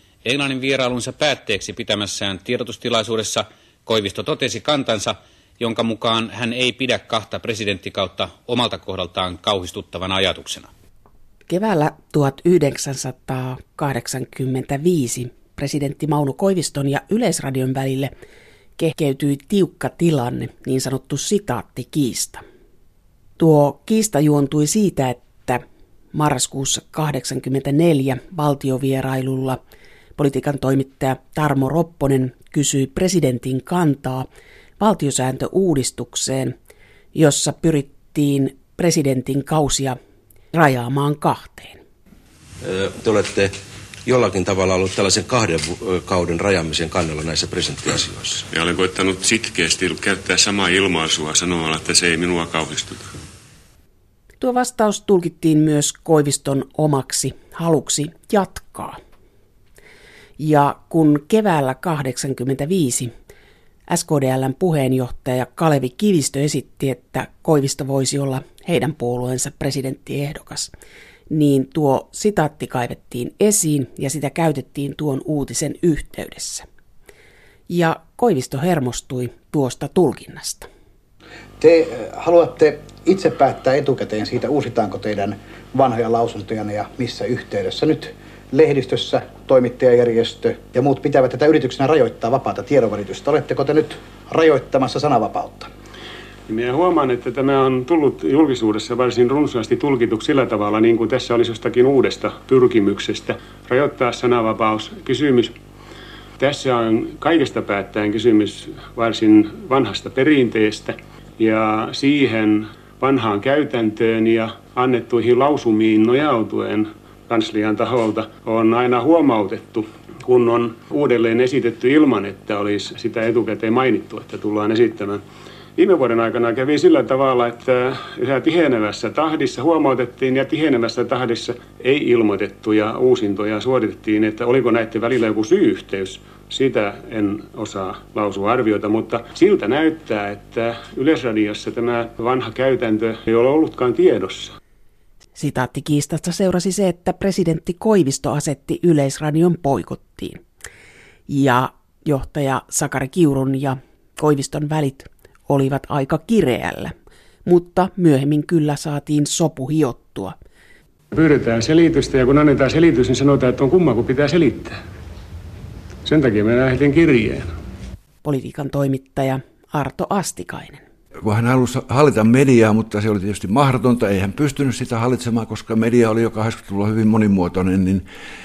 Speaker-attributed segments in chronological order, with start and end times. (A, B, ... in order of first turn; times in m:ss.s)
0:00.2-0:10.7 A
0:11.5-0:18.1 B
0:18.8-0:22.4 B
0:23.4-0:29.6 B
0:30.2-0:34.3 B
0:34.8-0:36.5 B
0:37.1-0:40.0 B
0:40.5-0:41.8 B
0:42.6-0:43.5 C
0:44.0-0:48.4 C
0:48.5-0:53.1 D
0:54.4-0:59.0 B
1:00.4-1:03.1 B
1:03.9-1:10.7 B
1:11.3-1:16.6 B
1:17.7-1:20.7 B
1:21.6-1:35.7 E
1:36.5-1:45.5 F
1:46.4-2:05.2 F
2:05.8-2:24.5 F
2:25.4-2:30.4 B
2:31.3-2:36.9 B
2:37.4-2:40.3 B
2:41.1-2:44.7 F
2:46.0-2:47.5 F
2:48.2-2:50.8 B
2:51.2-2:58.0 G